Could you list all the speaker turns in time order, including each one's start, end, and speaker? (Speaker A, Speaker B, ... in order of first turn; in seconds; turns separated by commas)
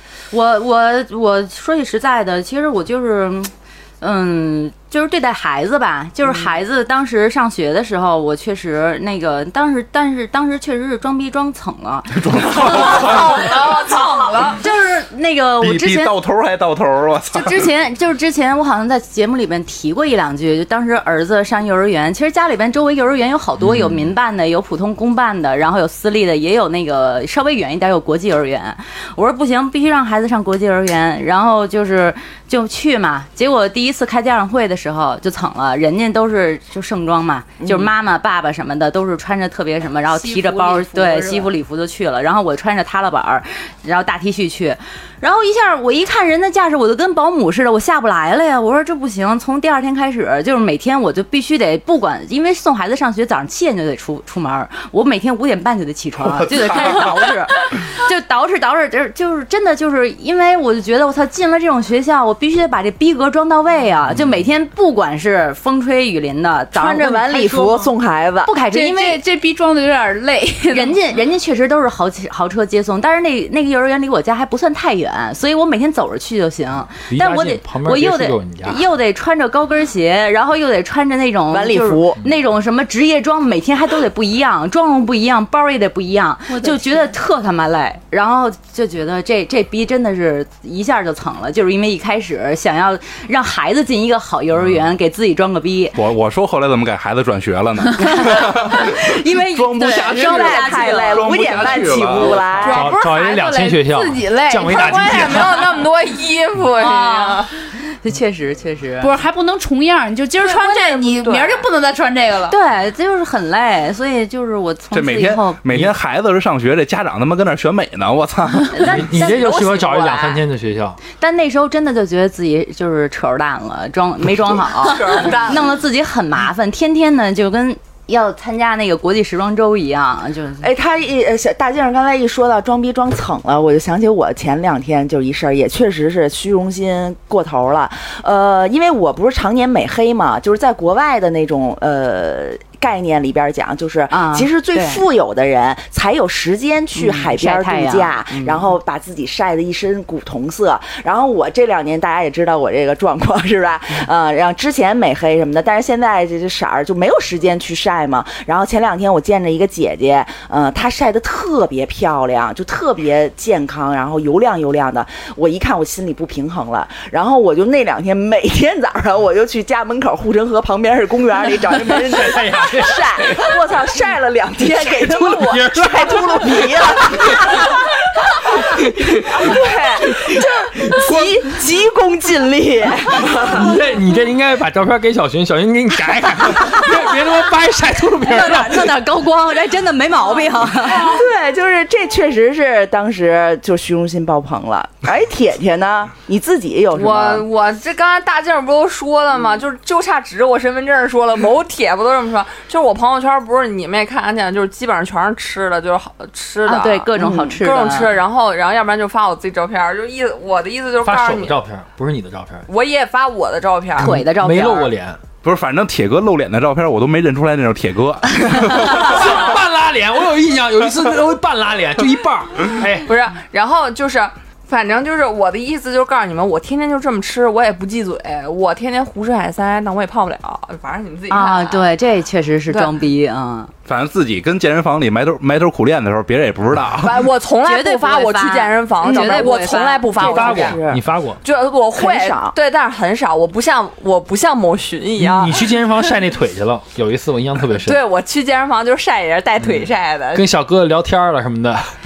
Speaker A: 0.3-13.1, Speaker B: 12.2-13.5, Speaker C: 12.6-14.6, Speaker A: 14.5-16.1, Speaker B: 15.6-17.7, Speaker A: 17.3-67.9, Speaker D: 37.6-37.9, Speaker E: 40.1-41.5, Speaker B: 56.2-57.3, Speaker D: 66.7-68.5, Speaker A: 68.4-69.2, Speaker E: 68.7-71.0, Speaker A: 70.7-96.0, Speaker F: 77.1-78.8, Speaker D: 81.5-82.2, Speaker E: 86.5-87.1, Speaker B: 96.0-102.6, Speaker A: 98.0-101.4, Speaker D: 99.8-102.9, Speaker E: 102.6-105.3, Speaker F: 102.6-105.6, Speaker C: 104.7-107.5, Speaker A: 106.8-109.1, Speaker E: 109.0-112.5, Speaker C: 110.4-111.6, Speaker A: 112.5-115.6, Speaker B: 114.9-118.9, Speaker A: 118.7-119.4, Speaker F: 118.8-121.0, Speaker C: 119.0-120.4, Speaker A: 121.2-130.7, Speaker C: 124.7-125.8, Speaker D: 130.6-177.8, Speaker A: 144.1-145.0, Speaker A: 146.9-148.7, Speaker F: 171.7-173.6, Speaker F: 174.6-177.8, Speaker D: 178.4-183.8, Speaker F: 178.5-181.4, Speaker F: 183.3-188.9, Speaker A: 188.2-191.1, Speaker D: 190.9-197.4, Speaker C: 196.9-211.6, Speaker A: 206.7-208.1, Speaker D: 207.2-207.5, Speaker F: 211.0-212.7, Speaker C: 212.7-214.1, Speaker A: 214.0-214.9, Speaker F: 214.0-215.2, Speaker B: 215.4-219.4, Speaker F: 218.6-223.1, Speaker C: 223.0-231.9, Speaker A: 231.3-233.7, Speaker C: 232.7-232.9, Speaker B: 233.8-237.2, Speaker C: 237.0-240.8, Speaker A: 237.7-240.1, Speaker D: 240.2-241.0, Speaker F: 240.2-241.4, Speaker C: 241.4-245.7, Speaker D: 241.9-242.5, Speaker F: 245.2-248.0, Speaker C: 247.8-250.5, Speaker F: 250.3-251.9